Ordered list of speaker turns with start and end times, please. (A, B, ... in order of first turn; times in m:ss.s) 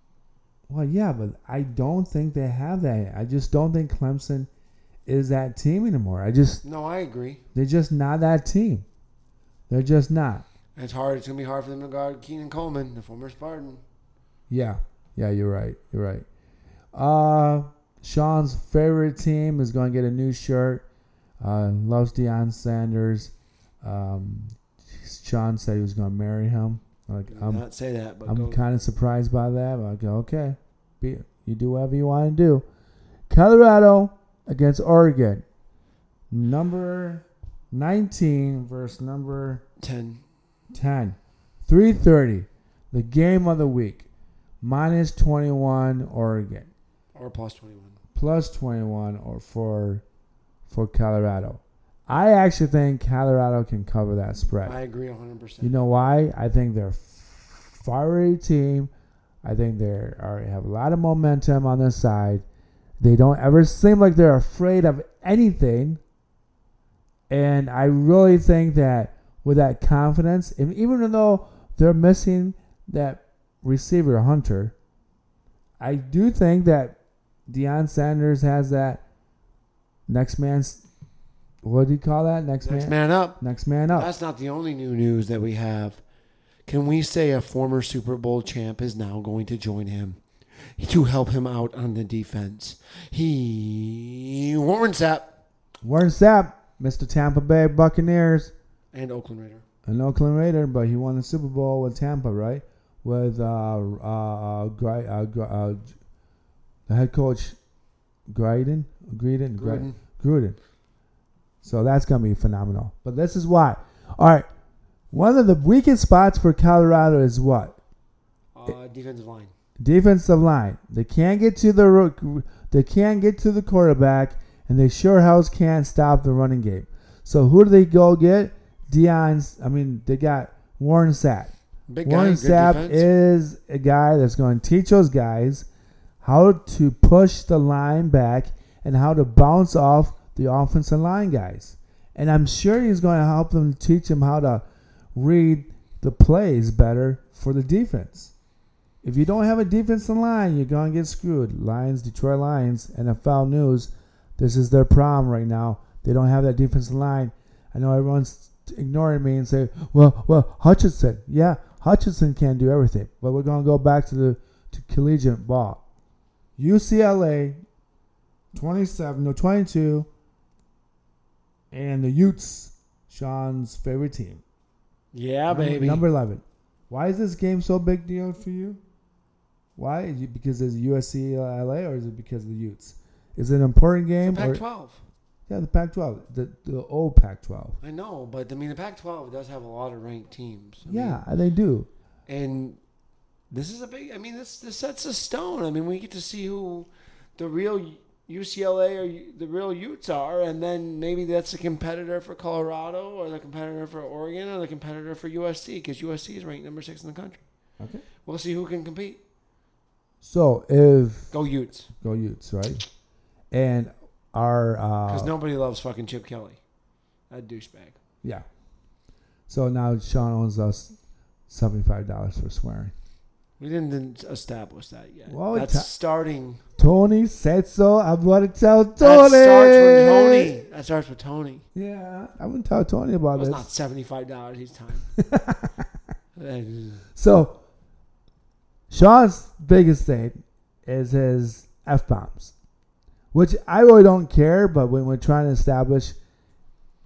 0:00.7-0:04.5 A
0:05.0-0:06.6 A
0:06.6-0:07.4 B
0:07.5-0:08.8 A
0:09.7-0:10.4 A
0:10.8-0:13.8 B
0:14.5-0:16.2 A
0:16.9-0:20.8 A
0:21.4-0:27.6 A
0:27.3-0:28.6 B
0:28.2-0:32.6 A
0:33.3-0:35.4 A
0:36.3-0:39.6 A
0:39.8-0:40.2 B
0:40.7-0:44.1 A
0:44.6-0:46.7 A
0:47.1-0:48.0 B
0:48.1-0:50.0 A
0:50.7-0:54.7 A
0:54.6-0:55.7 B
0:55.6-0:58.9 A
0:59.4-1:02.4 A
1:03.0-1:06.0 A
1:07.3-1:14.7 A
1:15.8-1:17.0 A
1:17.5-1:19.0 A
1:20.1-1:20.8 A
1:21.6-1:24.1 A
1:22.6-1:23.4 B
1:23.9-1:26.0 B
1:26.6-1:35.3 B
1:35.8-1:38.5 A
1:38.9-1:39.6 B
1:39.8-1:46.0 A
1:46.9-1:47.6 A
1:48.3-1:50.6 A
1:49.5-1:50.0 B
1:51.6-1:54.5 A
1:55.1-1:57.8 A
1:58.5-1:59.5 B
1:59.8-2:15.7 A
2:11.9-2:13.1 B
2:16.2-2:24.6 A
2:25.1-2:28.3 A
2:29.0-2:45.8 A
2:46.6-2:47.6 A
2:48.5-2:50.1 A
2:51.7-2:54.4 A
2:55.1-2:56.0 B
2:55.5-2:58.8 A
2:59.8-3:04.6 A
3:04.2-3:05.0 B
3:05.5-3:07.8 A
3:07.8-3:11.2 B
3:10.8-3:11.9 A
3:12.3-3:12.8 B
3:13.5-3:27.4 B
3:27.8-3:28.0 A
3:28.2-3:29.2 B
3:30.2-3:31.3 A
3:31.3-3:31.9 B
3:32.0-3:32.8 A
3:33.5-3:35.3 A
3:35.1-3:36.6 B
3:37.3-3:38.0 B
3:39.5-3:40.9 A
3:41.5-3:42.9 A
3:43.6-3:46.6 B
3:45.3-3:45.9 A
3:46.8-3:50.5 A
3:49.0-3:51.6 B
3:51.7-3:53.7 A
3:53.3-3:55.1 B
3:55.2-3:55.8 A
3:56.3-3:57.1 B
3:57.1-3:57.6 A
3:58.9-4:02.5 A
4:03.3-4:06.2 A